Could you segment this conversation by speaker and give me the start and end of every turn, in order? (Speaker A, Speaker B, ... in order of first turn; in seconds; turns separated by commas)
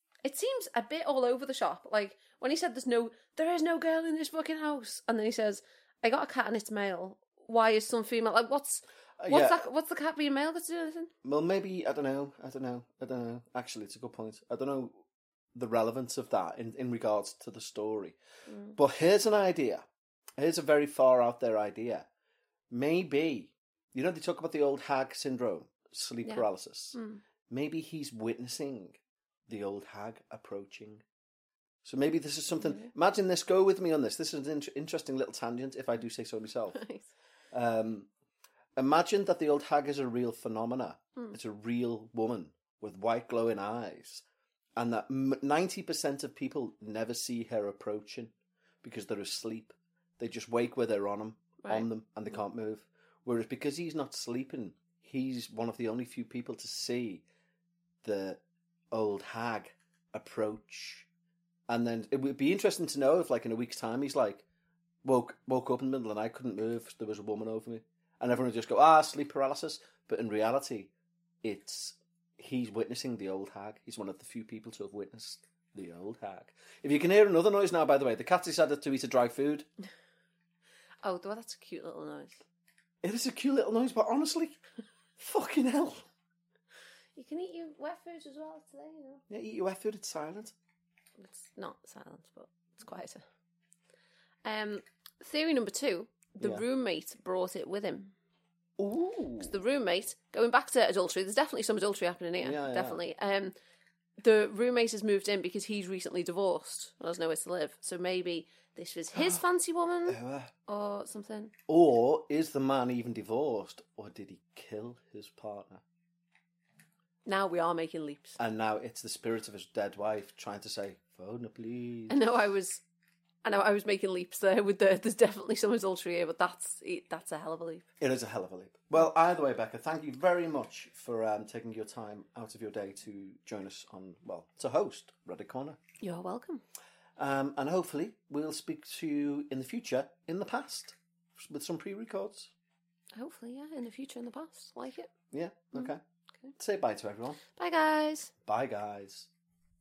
Speaker A: 0.2-11.1, Speaker B: 9.2-9.6, Speaker B: 11.2-15.0, Speaker B: 15.6-18.2, Speaker A: 18.5-18.8, Speaker B: 18.8-19.9, Speaker B: 20.4-22.1, Speaker B: 22.7-31.0, Speaker A: 26.9-27.2, Speaker B: 31.8-36.8, Speaker A: 32.6-32.9, Speaker A: 36.8-37.0, Speaker B: 37.5-38.1, Speaker B: 38.8-44.2, Speaker B: 44.8-57.2, Speaker B: 58.0-58.4, Speaker B: 58.9-61.1, Speaker B: 61.7-64.5, Speaker B: 65.0-70.9, Speaker B: 71.4-79.7, Speaker A: 81.0-82.4, Speaker B: 83.0-84.6, Speaker B: 85.2-86.1, Speaker A: 87.2-89.2, Speaker B: 89.3-90.5, Speaker A: 91.2-93.2, Speaker A: 94.5-98.2, Speaker B: 96.4-96.7, Speaker B: 98.8-99.6, Speaker A: 99.4-103.5, Speaker B: 102.4-103.0, Speaker A: 104.2-111.5, Speaker B: 109.1-109.4, Speaker B: 110.1-110.5, Speaker B: 111.7-115.8, Speaker A: 117.3-118.4, Speaker B: 118.4-122.2, Speaker A: 122.1-122.8, Speaker A: 123.4-127.9, Speaker B: 128.0-135.8, Speaker A: 136.0-136.6, Speaker B: 137.2-142.5, Speaker A: 143.2-145.1, Speaker B: 145.3-146.0, Speaker B: 146.6-147.4, Speaker A: 147.6-148.3, Speaker B: 148.4-149.3